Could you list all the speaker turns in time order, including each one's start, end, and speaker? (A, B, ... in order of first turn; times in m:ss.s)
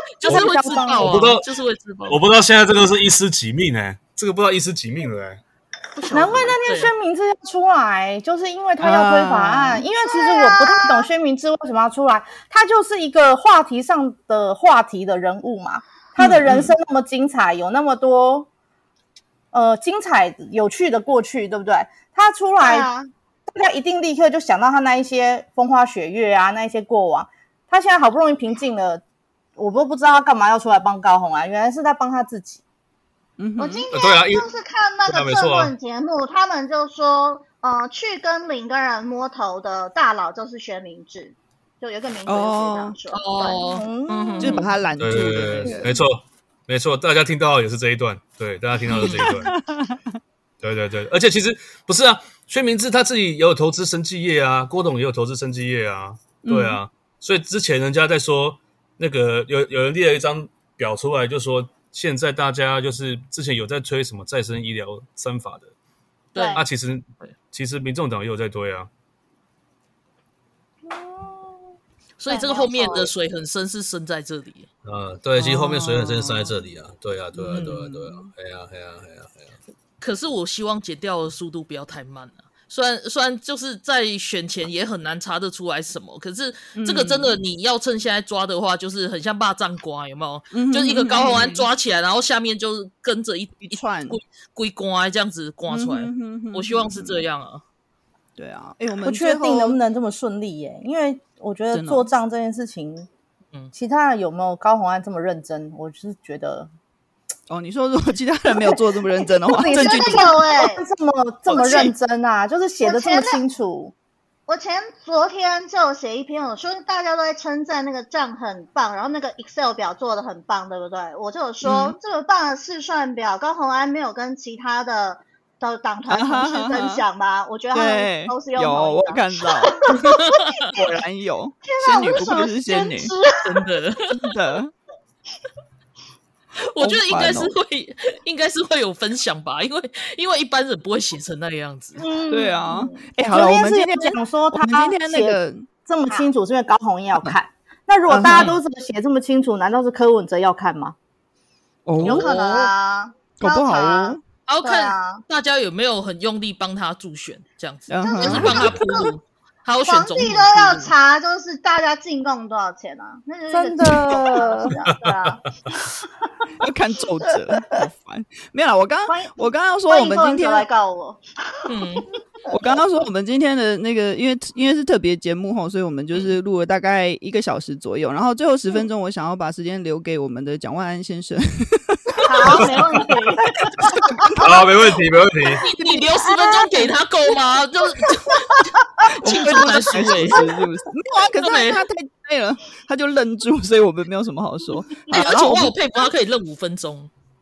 0:00.2-0:02.2 A
0:00.2-0:01.2 B
0:01.0-0:01.4 C
0:02.1-0:05.4 C
0:06.0-0:06.9 A
0:06.1-0:18.5 B
0:08.8-0:09.8 D
0:10.0-0:11.1 E
0:16.2-0:16.6 D
0:19.5-0:22.9 B
0:22.6-0:23.1 E
0:23.5-0:29.0 B
0:29.6-0:32.6 B
0:33.4-0:33.9 D
0:33.6-0:43.7 E
0:33.9-0:34.5 C
0:35.0-0:35.7 C
0:42.3-0:43.0 D
0:43.1-0:44.7 A
0:43.7-0:44.7 B
0:44.4-0:46.0 D
0:45.0-0:49.5 C
0:48.9-0:50.2 D
0:48.9-0:49.3 A
0:50.6-1:05.7 C
0:56.4-0:56.8 D
1:06.3-1:06.6 A
1:06.4-1:06.6 E
1:06.5-1:08.9 C
1:10.9-1:11.6 B
1:12.2-1:14.7 A
1:12.3-1:13.1 E
1:14.8-1:19.6 C
1:15.4-1:16.5 D
1:17.4-1:18.3 D
1:17.5-1:17.8 A
1:20.0-1:37.6 A
1:26.8-1:27.4 D
1:30.5-1:31.7 D
1:33.6-1:34.2 D
1:35.7-1:37.2 D
1:38.4-1:39.8 D
1:39.0-1:43.1 B
1:41.7-1:42.1 D
1:43.7-1:46.7 B
1:47.5-1:50.4 D
1:49.4-1:53.9 B
1:49.7-1:50.8 E
1:51.5-1:51.9 D
1:52.8-1:53.4 E
1:54.5-2:10.2 E
2:01.6-2:02.0 D
2:06.1-2:07.0 D
2:07.7-2:13.1 D
2:10.1-2:10.5 A
2:11.7-2:13.3 E
2:13.4-2:14.1 A
2:14.1-2:14.7 D
2:16.7-2:22.0 A
2:16.8-2:17.5 D
2:22.0-2:23.1 E
2:22.0-2:31.0 B
2:22.3-2:25.7 D
2:28.1-2:28.6 D
2:28.3-2:28.6 A
2:31.9-2:32.7 D
2:32.0-2:35.2 E
2:32.0-2:32.3 B
2:33.4-2:34.2 D
2:34.5-2:40.9 A
2:37.9-2:38.8 D
2:38.0-2:39.1 E
2:38.3-2:38.8 C
2:39.8-2:46.0 E
2:43.5-2:44.7 B
2:44.9-2:45.4 C
2:46.6-2:50.7 D
2:49.1-2:51.7 E
2:51.7-2:52.1 A
2:52.5-3:03.1 D
3:02.2-3:04.1 E
3:02.6-3:03.0 C
3:03.8-3:04.7 D
3:04.4-3:05.6 C
3:05.6-3:08.6 A
3:09.1-3:15.8 D
3:09.2-3:10.4 A
3:11.4-3:11.8 A
3:15.1-3:17.1 A